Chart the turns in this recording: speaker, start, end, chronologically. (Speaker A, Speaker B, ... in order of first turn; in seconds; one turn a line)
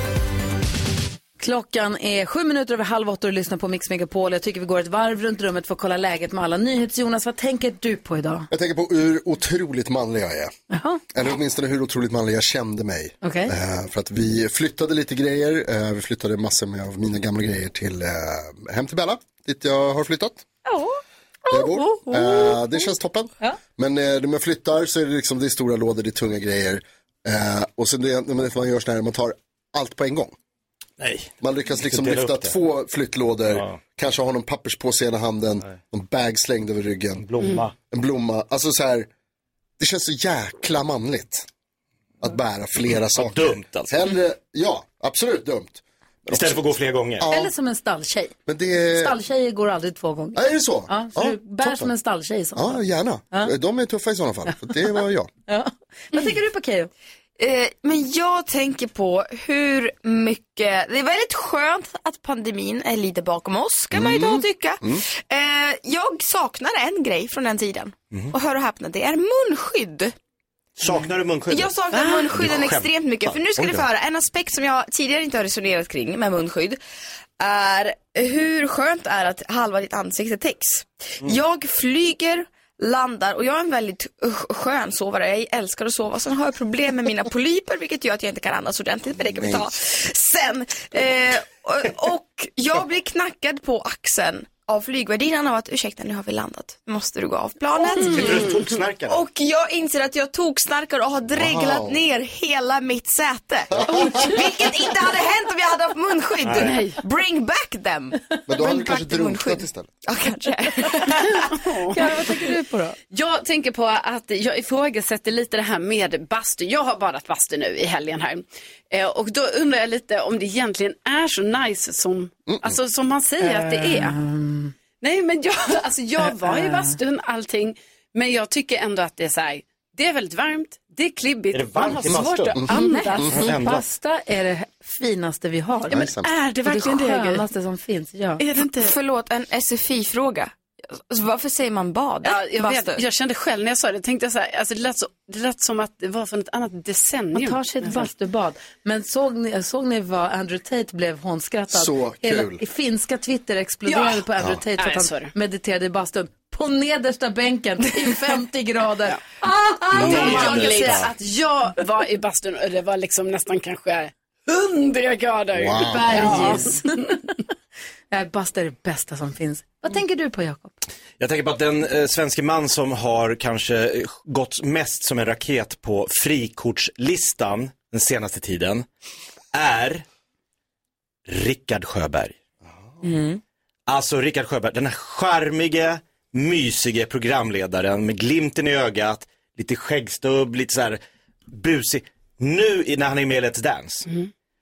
Speaker A: 1.4-8.5
Speaker B: 8.5-10.5
Speaker A: 10.7-11.0
Speaker B: 11.1-20.4
Speaker A: 13.2-13.5
Speaker A: 20.7-20.9
Speaker B: 21.5-30.4
Speaker A: 21.5-22.6
Speaker C: 31.0-31.3
Speaker B: 31.4-37.2
Speaker C: 31.9-32.5
Speaker C: 37.2-37.7
Speaker B: 37.9-39.1
Speaker B: 39.8-41.5
Speaker B: 42.2-47.5
Speaker C: 43.1-43.9
Speaker C: 46.3-47.3
Speaker A: 47.3-48.3
Speaker B: 48.5-49.1
Speaker A: 48.9-52.8
Speaker B: 50.3-51.9
Speaker B: 52.5-55.3
Speaker A: 55.5-56.9
Speaker D: 57.4-70.1
Speaker B: 63.9-65.0
Speaker C: 70.8-71.7
Speaker D: 71.5-76.8
Speaker E: 71.9-72.3
Speaker C: 72.3-72.9
Speaker B: 73.6-73.8
Speaker D: 77.4-98.4
Speaker B: 89.2-89.7
Speaker E: 97.9-98.6
Speaker C: 98.1-99.2
Speaker D: 99.1-111.5
Speaker B: 101.3-102.0
Speaker B: 103.8-104.2
Speaker C: 106.4-106.8
Speaker E: 106.5-107.0
Speaker B: 108.5-109.9
Speaker E: 111.2-112.1
Speaker A: 111.9-113.0
Speaker E: 113.1-124.1
Speaker A: 123.4-124.7
Speaker E: 125.0-133.3
Speaker A: 126.2-127.0
Speaker C: 131.5-132.6
Speaker A: 131.8-135.9
Speaker C: 133.3-133.8
Speaker B: 135.9-136.3
Speaker E: 135.9-137.4
Speaker A: 136.7-138.4
Speaker E: 138.4-138.9
Speaker D: 138.8-143.0
Speaker E: 142.2-148.1
Speaker A: 147.3-161.1
Speaker B: 151.7-152.6
Speaker E: 153.9-154.2
Speaker E: 154.8-155.3
Speaker C: 160.0-161.1
Speaker E: 160.0-166.8
Speaker D: 160.3-160.8
Speaker B: 165.5-166.4
Speaker A: 165.9-167.1
Speaker A: 168.1-170.7
Speaker C: 171.2-178.8
Speaker C: 179.5-180.0
Speaker C: 181.3-182.3
Speaker D: 183.0-183.4
Speaker C: 183.9-191.0
Speaker C: 191.5-194.1